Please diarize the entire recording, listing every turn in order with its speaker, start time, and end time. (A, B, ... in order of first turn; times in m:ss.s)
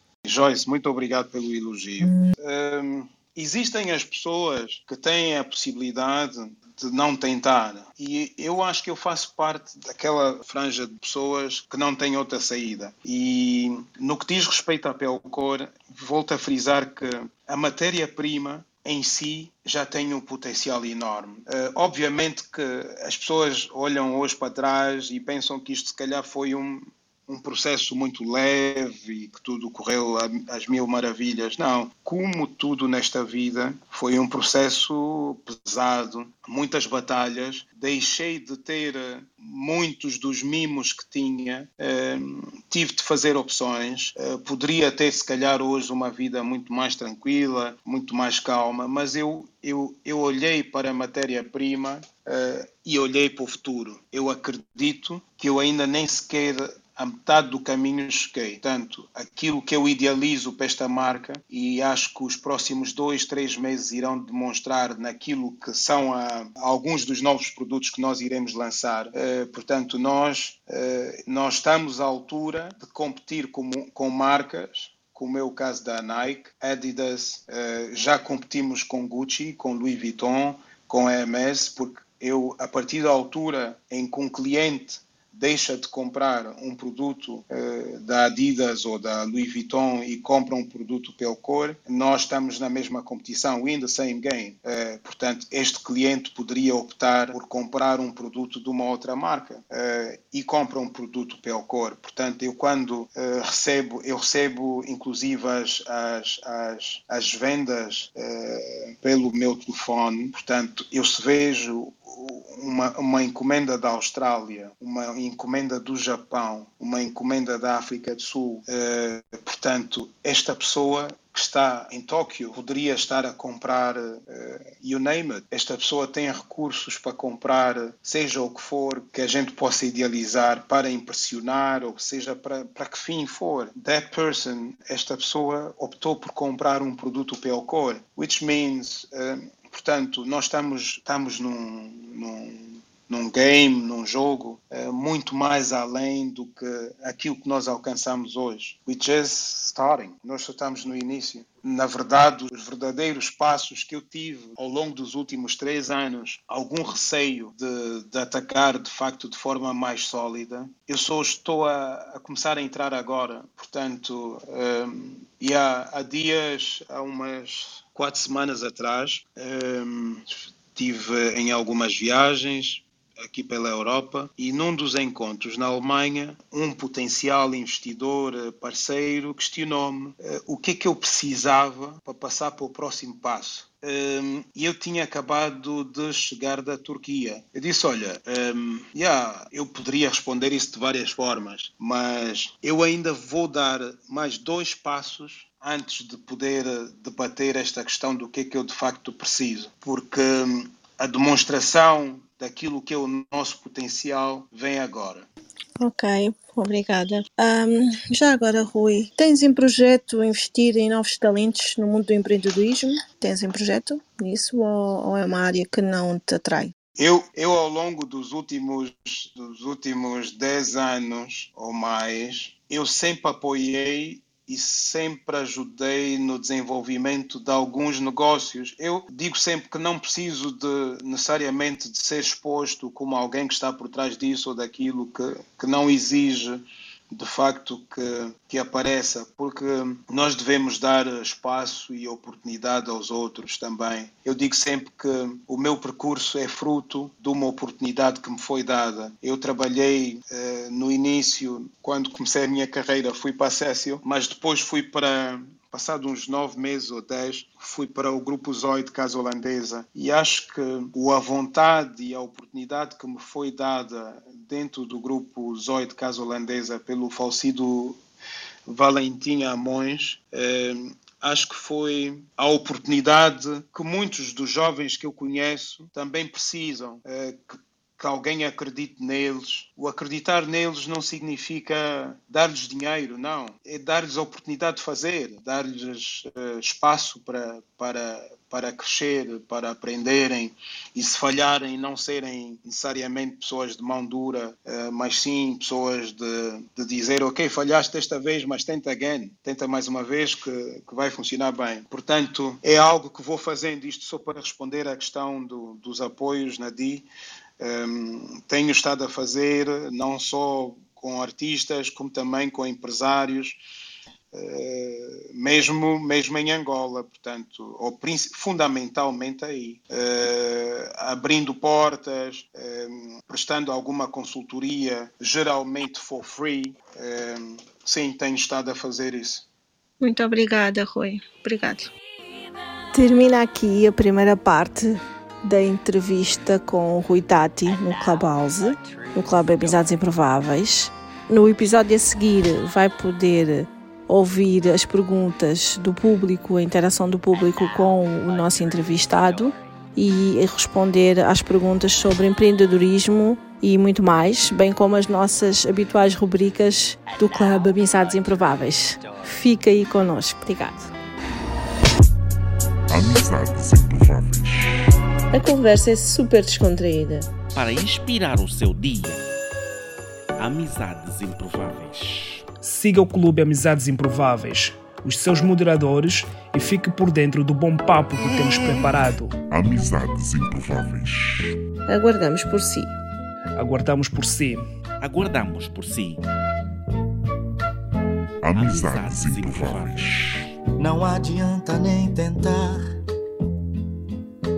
0:00.2-3:25.3 A
3:25.8-3:36.7 B
3:37.0-4:28.0 A
4:28.7-5:07.1 A
5:07.6-5:13.6 A
5:14.3-5:29.5 A
5:30.0-5:31.9 B
5:32.9-6:00.9 B
6:02.9-6:04.7 C
6:05.3-6:07.3 B
6:07.6-6:09.2 D
6:10.4-6:12.4 D
6:12.6-6:19.3 E
6:19.5-6:21.6 C
6:21.9-6:22.9 B
6:23.6-6:24.6 E
6:25.0-6:26.2 D
6:28.4-6:30.4 C
6:28.6-6:30.0 D
6:30.8-6:33.0 F